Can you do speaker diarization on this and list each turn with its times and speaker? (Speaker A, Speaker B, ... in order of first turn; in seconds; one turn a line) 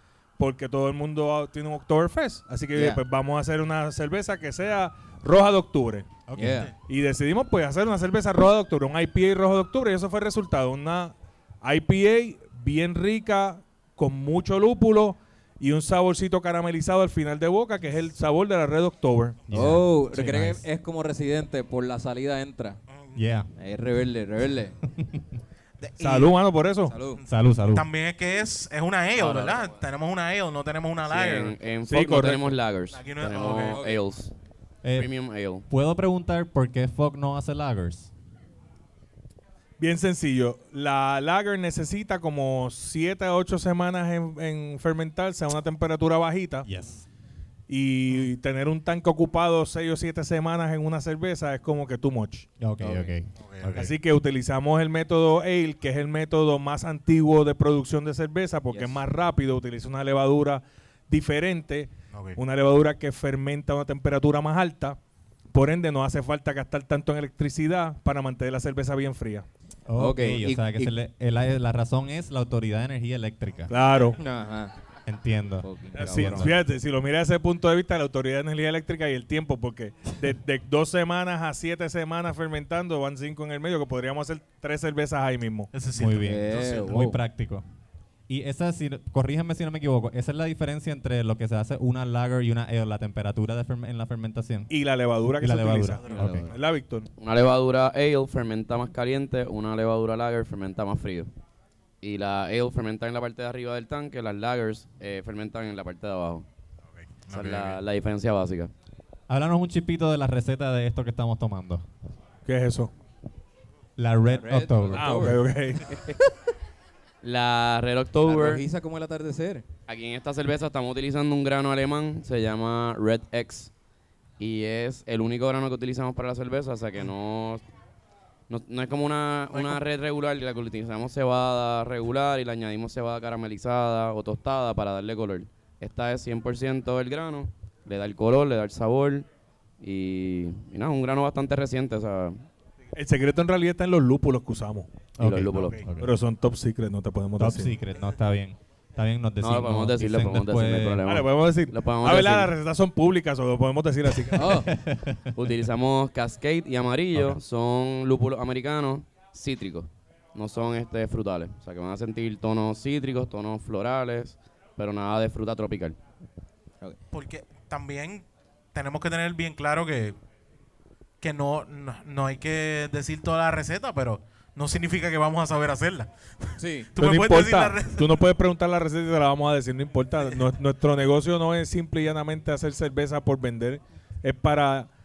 Speaker A: 0.4-6.1
Speaker B: 2.7-3.0
Speaker C: 6.3-6.6
Speaker B: 6.3-6.7
Speaker A: 6.9-19.4
Speaker C: 19.5-20.6
Speaker B: 19.5-22.8
Speaker D: 22.9-23.2
Speaker C: 23.1-23.5
Speaker B: 23.6-24.8
Speaker C: 24.9-25.3
Speaker D: 25.8-26.3
Speaker A: 26.0-26.9
Speaker B: 26.9-27.2
Speaker D: 27.2-31.6
Speaker C: 27.3-27.9
Speaker E: 29.2-29.8
Speaker E: 31.1-34.3
Speaker A: 31.9-32.5
Speaker D: 32.9-33.8
Speaker B: 33.6-34.0
Speaker E: 34.9-35.6
Speaker C: 35.7-38.1
Speaker A: 39.8-46.7
Speaker C: 46.6-47.0
Speaker A: 47.7-52.5
Speaker C: 52.6-53.9
Speaker B: 52.8-53.1
Speaker D: 53.4-53.8
Speaker A: 53.7-65.0
Speaker B: 58.7-59.0
Speaker D: 62.1-62.4
Speaker A: 65.5-69.5
Speaker C: 69.9-73.7
Speaker B: 69.9-70.9
Speaker A: 73.7-74.2
Speaker B: 74.1-74.7
Speaker C: 75.1-76.5
Speaker B: 75.6-76.6
Speaker A: 76.0-85.7
Speaker D: 85.7-86.9
Speaker C: 86.0-87.6
Speaker B: 86.2-87.2
Speaker C: 88.3-94.7
Speaker A: 94.7-97.1
Speaker C: 95.4-96.5
Speaker D: 96.0-96.6
Speaker B: 96.1-96.4
Speaker E: 97.2-101.3
Speaker E: 102.0-106.5
Speaker D: 107.0-107.8
Speaker E: 107.3-108.7
Speaker C: 109.3-111.9
Speaker A: 112.5-112.9
Speaker C: 114.0-115.3
Speaker B: 114.3-116.2
Speaker A: 114.9-115.9
Speaker E: 117.2-118.6
Speaker B: 118.2-119.6
Speaker E: 119.9-123.7
Speaker E: 124.4-127.6
Speaker E: 128.5-139.3
Speaker D: 129.5-129.8
Speaker E: 139.8-142.4
Speaker A: 142.9-145.0
Speaker C: 145.2-146.1
Speaker E: 145.2-145.8
Speaker D: 145.5-145.8
Speaker A: 146.0-147.7
Speaker C: 147.4-151.0
Speaker E: 149.4-152.5
Speaker A: 151.0-154.6
Speaker B: 154.4-154.7
Speaker C: 154.7-155.3
Speaker E: 155.3-166.0
Speaker D: 167.1-170.2
Speaker D: 171.2-178.2
Speaker B: 176.6-176.9
Speaker A: 177.0-184.9